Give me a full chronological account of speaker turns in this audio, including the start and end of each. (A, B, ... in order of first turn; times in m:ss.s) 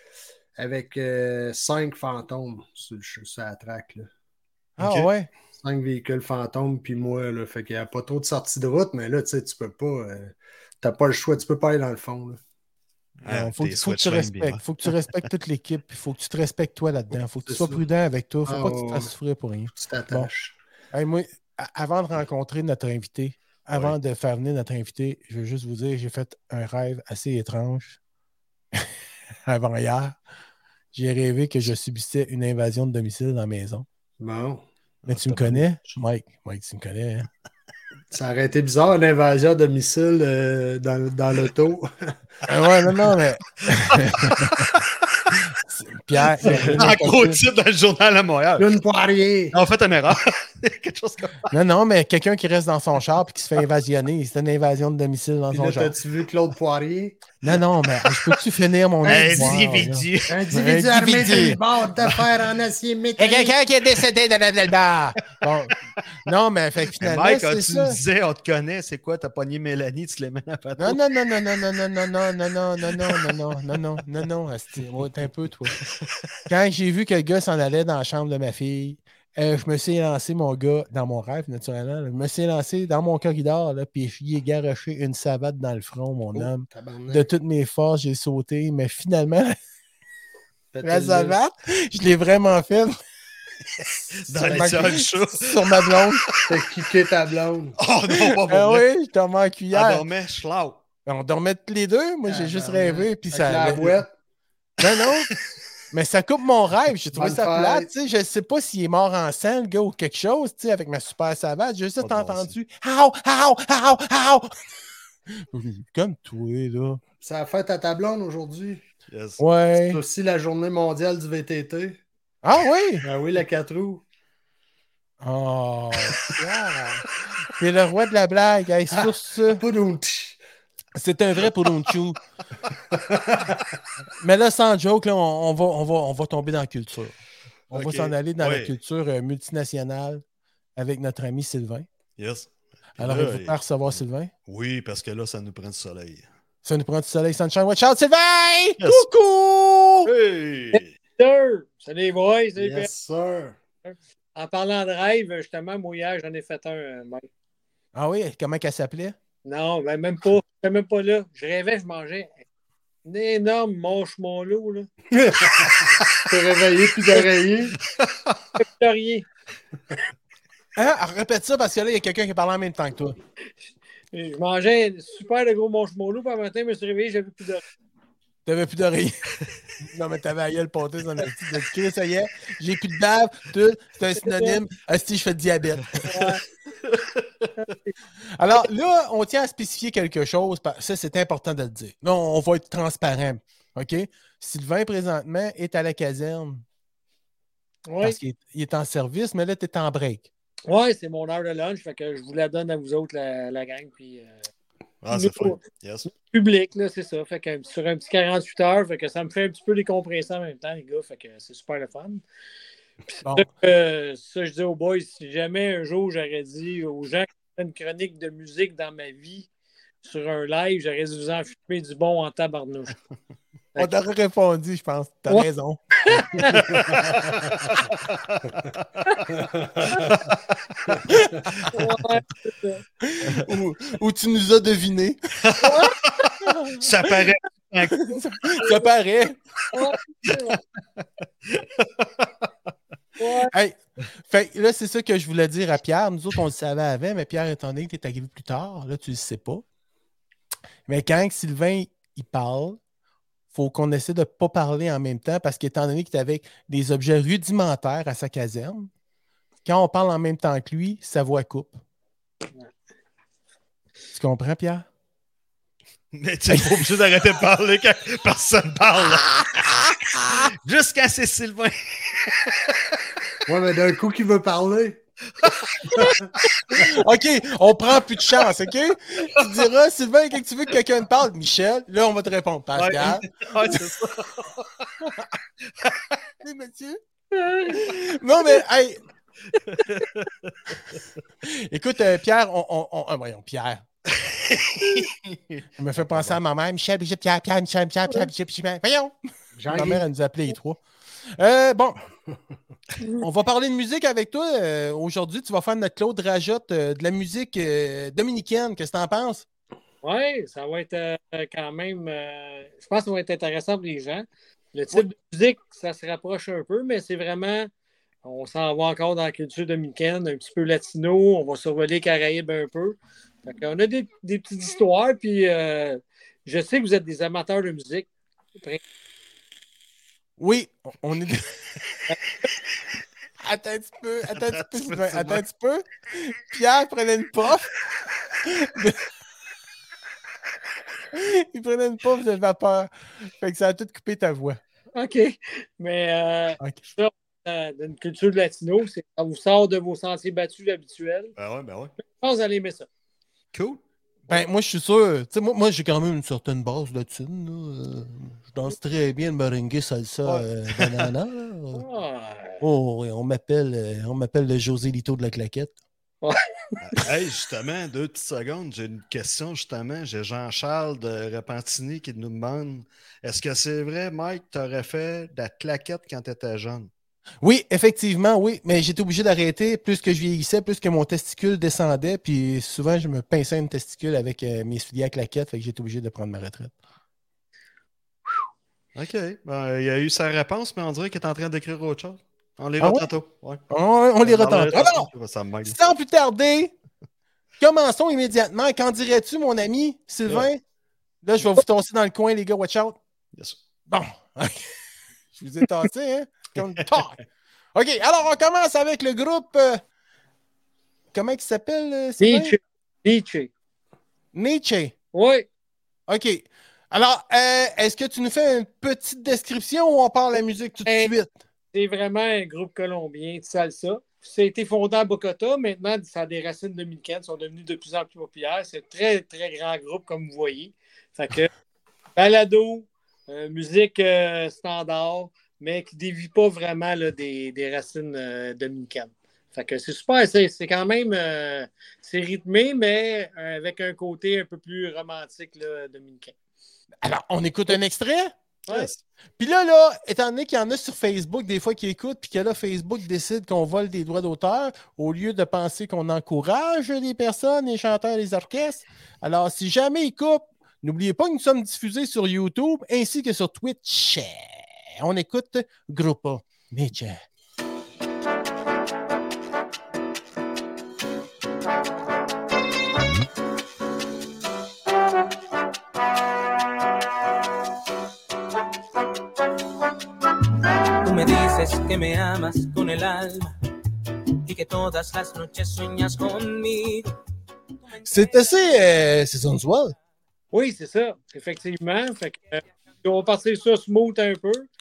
0:00.6-0:04.1 A
0:04.8-0:05.3 B
0:04.8-0:05.1 C
0:05.5-0:12.4 A
0:13.2-0:14.9 C
0:13.2-0:20.3 B
0:17.5-0:17.8 A
0:18.4-0:19.1 A
0:19.7-0:20.5 A
0:20.9-0:28.0 B
0:23.7-0:24.0 C
0:29.5-0:30.2 B
0:30.9-0:33.8 B
0:34.2-0:34.6 A
0:35.0-0:35.6 C
0:35.1-0:37.3 B
0:38.1-0:42.1 A
0:42.5-0:44.6 B
0:43.8-0:45.3 C
0:45.6-0:47.4 B
0:46.4-0:47.0 A
0:46.5-0:48.7 C
0:48.6-0:49.6 A
0:49.5-0:51.5 C
0:51.5-0:55.9 B
0:55.5-0:57.2 A
0:57.4-1:01.6 B
0:59.0-1:00.4 C
0:59.1-0:59.6 A
1:00.3-1:03.5 A
1:03.2-1:08.0 B
1:06.9-1:11.0 C
1:10.8-1:15.7 B
1:13.0-1:13.2 C
1:16.5-1:29.6 B
1:26.3-1:27.3 A
1:30.7-1:31.4 A
1:30.8-1:32.9 B
1:34.2-1:36.4 C
1:34.3-1:35.0 A
1:34.4-1:36.2 B
1:36.5-1:37.8 A
1:37.8-1:38.9 C
1:38.1-1:40.0 B
1:39.7-1:40.8 C
1:41.0-1:44.0 B
1:42.2-1:44.1 A
1:44.8-1:45.3 B
1:45.9-1:54.5 B
1:47.1-1:47.9 A
1:52.0-1:52.5 C
1:55.5-1:57.0 B
1:57.2-1:58.8 A
1:59.1-1:59.4 C
1:59.4-2:00.0 B
1:59.8-2:02.0 A
2:02.4-2:03.0 B
2:03.0-2:04.0 A
2:05.2-2:09.6 B
2:09.0-2:10.4 A
2:11.0-2:12.2 B
2:12.9-2:13.7 A
2:14.2-2:17.2 B
2:17.7-2:18.7 C
2:17.7-2:20.2 B
2:20.8-2:21.8 B
2:22.2-2:26.2 C
2:23.0-2:24.3 B
2:26.6-2:30.1 B
2:28.8-2:29.1 C
2:30.0-2:30.9 C
2:30.8-2:32.9 D
2:32.6-2:33.6 A
2:33.8-2:37.3 D
2:37.9-2:39.1 B
2:39.4-2:42.4 D
2:43.0-2:44.9 D
2:45.1-2:47.8 A
2:47.9-2:48.4 C
2:48.6-2:49.2 D
2:50.8-2:53.2 B
2:54.1-2:57.6 D
2:58.4-2:59.3 B
2:59.8-3:06.1 B
3:04.2-3:04.6 D
3:06.1-3:06.4 D
3:06.8-3:07.5 C
3:07.6-3:07.9 D
3:08.4-3:16.6 B
3:17.9-3:18.2 D
3:18.0-3:20.3 B
3:20.7-3:24.4 D
3:25.0-3:26.1 C
3:25.1-3:25.6 D
3:26.1-3:32.2 D
3:33.1-3:39.5 D
3:40.0-3:42.9 D
3:43.8-3:45.8 B
3:46.1-3:46.6 D
3:46.5-3:47.4 C
3:48.1-3:49.2 C
3:49.4-3:50.2 A
3:50.9-3:51.4 A
3:51.6-3:51.8 C
3:51.7-3:52.8 D
3:53.0-3:55.2 B
3:55.4-3:55.8 C
3:55.6-3:56.1 D
3:56.4-3:57.1 B
3:56.8-3:58.2 C
3:57.9-3:59.4 B
3:59.7-4:00.6 D
4:00.3-4:02.5 C
4:03.2-4:03.5 D
4:03.5-4:09.6 B
4:10.9-4:12.8 B
4:13.5-4:18.9 B
4:19.6-4:21.8 B
4:24.1-4:24.8 B
4:26.1-4:29.7 C
4:30.3-4:33.0 C
4:33.4-4:35.0 A
4:35.9-4:36.2 A
4:36.7-4:43.3 B
4:42.8-4:45.1 C
4:45.8-4:46.2 C
4:46.4-4:47.0 B
4:47.3-4:47.8 D
4:47.7-4:49.0 B
4:49.6-4:51.0 C
4:51.4-4:53.8 B
4:54.1-4:56.4 C
4:55.8-4:59.1 B
4:59.5-5:00.0 A
4:59.7-5:00.8 B
5:01.4-5:02.0 B
5:03.2-5:09.4 B
5:10.0-5:17.7 D
5:18.2-5:28.8 D
5:30.4-5:31.5 B
5:33.4-5:37.7 B
5:34.3-5:35.4 C
5:38.4-5:39.0 B
5:41.1-5:44.6 B
5:44.9-5:51.3 D
5:51.4-5:51.9 C
5:52.1-5:52.9 D
5:53.5-5:53.8 C
5:54.3-6:01.8 B
6:00.2-6:01.1 C
6:01.7-6:02.6 D
6:02.6-6:05.7 B
6:06.8-6:16.9 C
6:17.4-6:26.7 B
6:28.9-6:33.6 C
6:32.8-6:33.1 B
6:33.7-6:35.1 B
6:34.2-6:35.8 C
6:35.6-6:36.7 B
6:37.6-6:40.6 B
6:41.2-6:43.0 B
6:43.3-6:43.6 C
6:43.9-6:44.7 B
6:45.4-6:47.2 B
6:47.7-6:49.8 B
6:51.1-6:52.6 B
6:52.2-6:53.5 D
6:54.3-6:54.9 B
6:55.1-6:55.5 D
6:56.1-7:01.3 B
7:00.8-7:01.1 D
7:01.7-7:11.5 D
7:12.2-7:26.3 D
7:27.0-7:28.3 B
7:28.7-7:29.0 C
7:29.4-7:47.2 B
8:01.0-8:03.5 E
8:04.4-8:07.1 E
8:08.0-8:10.0 B
8:10.5-8:14.7 D